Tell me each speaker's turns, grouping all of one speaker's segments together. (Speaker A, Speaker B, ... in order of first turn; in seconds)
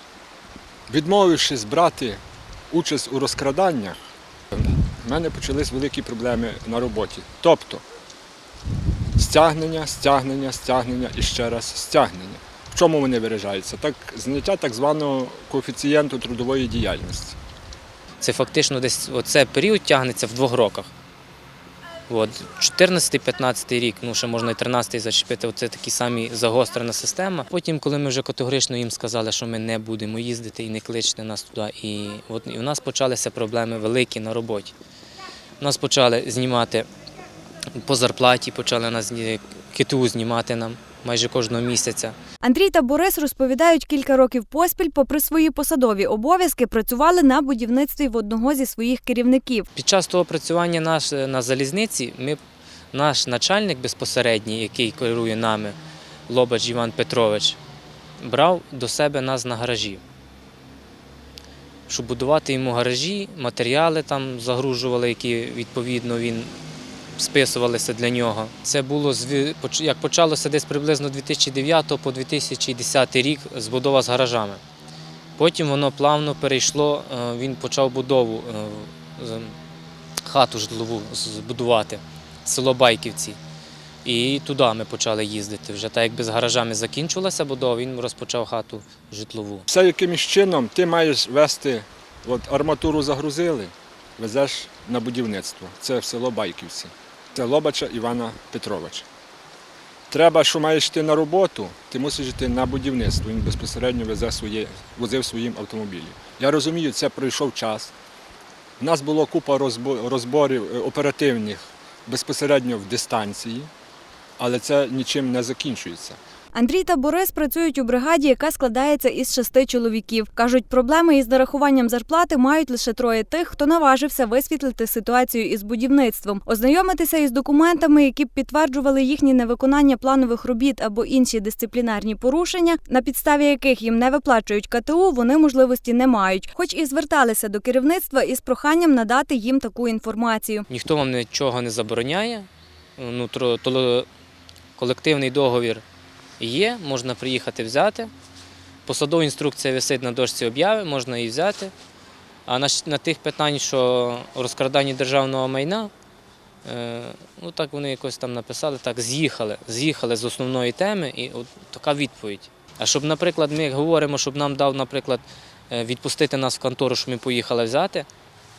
Speaker A: 0.9-4.0, 4.5-7.8, 9.1-17.4, 89.7-99.0, 100.1-107.9, 108.8-113.7, 114.4-116.2
Speaker B: 18.2-20.9, 22.1-34.7, 35.6-36.9, 37.7-42.1, 49.7-52.4, 52.9-55.8, 56.3-57.6, 58.2-60.0, 61.9-66.5, 67.2-74.6, 75.4-79.5, 80.2-83.4, 84.0-89.6, 140.7-144.1, 144.8-145.8, 146.4-148.1, 148.8-151.7, 152.4-155.9, 156.6-168.1
Speaker C: 42.4-49.7, 116.5-140.7